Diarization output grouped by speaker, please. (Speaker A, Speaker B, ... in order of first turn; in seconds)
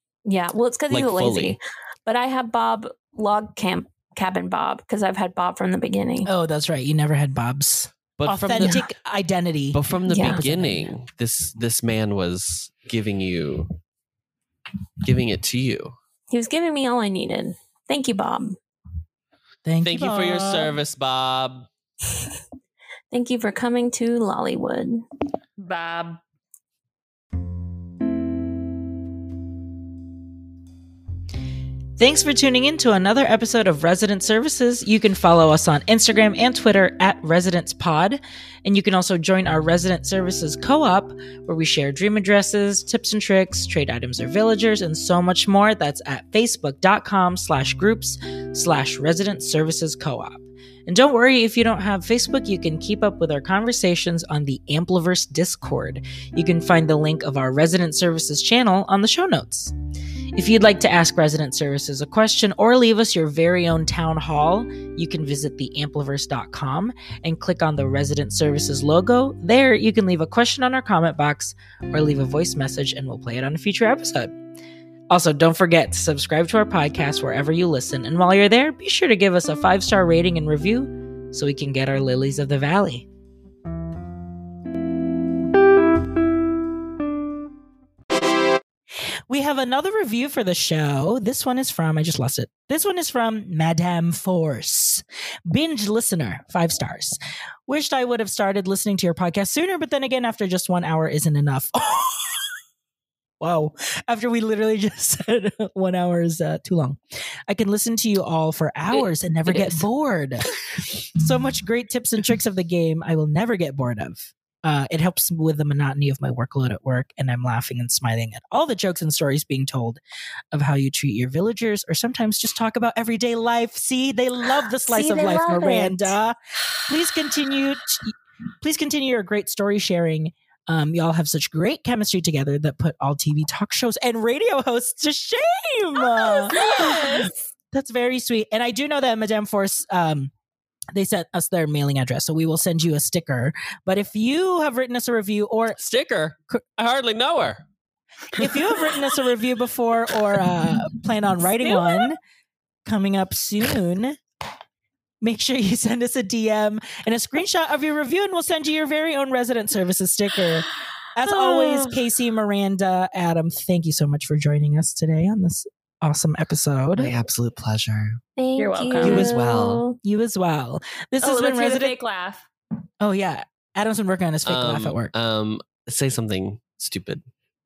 Speaker A: 0.2-6.3, 8.6-8.8, 10.1-10.4, 16.3-18.6, 23.1-25.1, 124.8-126.2, 136.5-136.9, 168.4-170.0
Speaker B: 0.9-1.6, 8.2-8.8, 9.7-13.7, 15.0-15.9, 19.8-21.7, 145.8-147.6, 148.3-149.0, 167.0-168.2, 169.0-169.8, 174.4-177.2
Speaker C: 6.2-10.9, 19.6-20.8, 32.0-59.7, 60.4-74.3, 75.1-83.1, 89.3-102.5, 103.4-120.0, 120.5-140.3, 140.9-145.8, 148.3-152.2, 152.9-154.2, 155.2-167.1, 169.0-169.4, 170.0-171.9, 173.0-175.1
Speaker D: 25.6-26.2, 108.9-109.8, 136.5-137.3, 168.6-169.3, 171.2-172.4